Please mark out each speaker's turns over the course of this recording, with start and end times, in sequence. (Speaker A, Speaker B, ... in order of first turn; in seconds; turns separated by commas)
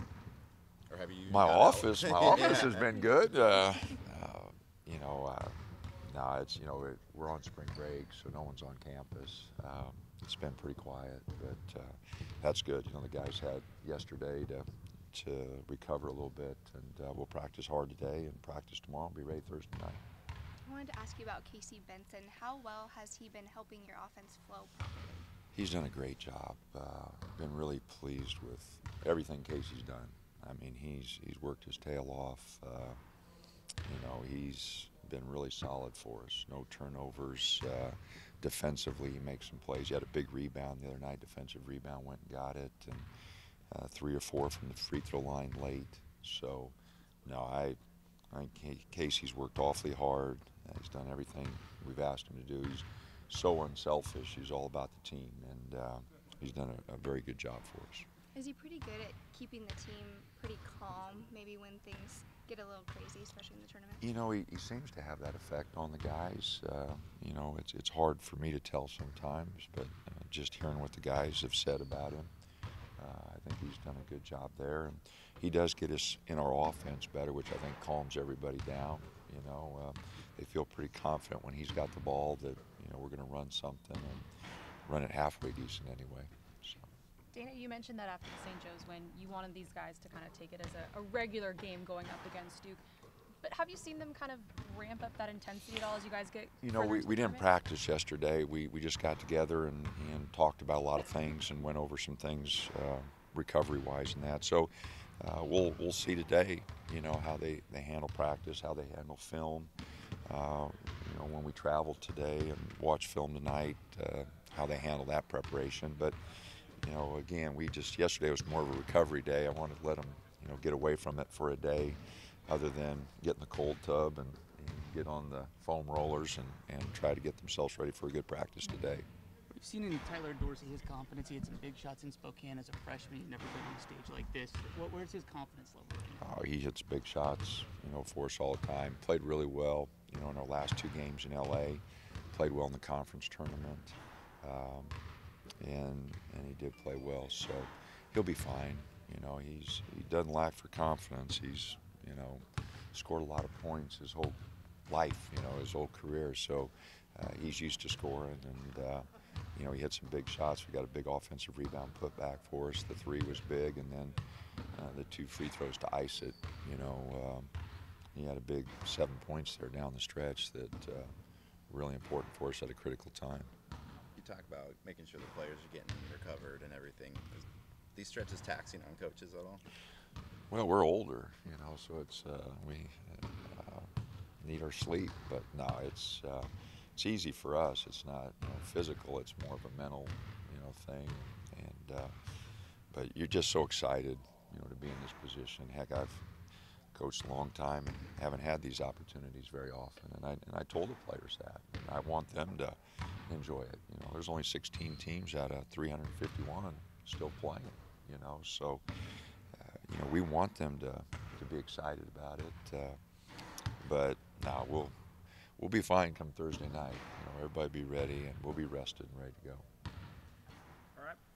Speaker A: 0.9-2.8, Speaker B: 1.3-20.0, Speaker C: 20.7-25.3, Speaker B: 25.5-33.0, Speaker B: 33.9-43.1, Speaker B: 43.7-47.8, Speaker B: 48.3-58.1, Speaker C: 58.3-64.1, Speaker B: 64.0-72.3, Speaker B: 73.0-84.3, Speaker B: 84.8-86.9, Speaker D: 87.3-92.8, Speaker D: 93.4-97.5, Speaker B: 96.6-109.7, Speaker B: 110.3-116.2, Speaker B: 116.8-129.1, Speaker E: 129.5-136.2, Speaker B: 136.2-145.0, Speaker B: 145.6-164.2, Speaker B: 164.7-167.5, Speaker B: 168.2-171.1, Speaker B: 171.7-173.5, Speaker A: 174.2-179.6, Speaker B: 180.5-192.2, Speaker B: 192.9-196.3, Speaker B: 196.9-208.8, Speaker B: 209.6-213.0, Speaker B: 213.8-215.0, Speaker B: 215.6-219.7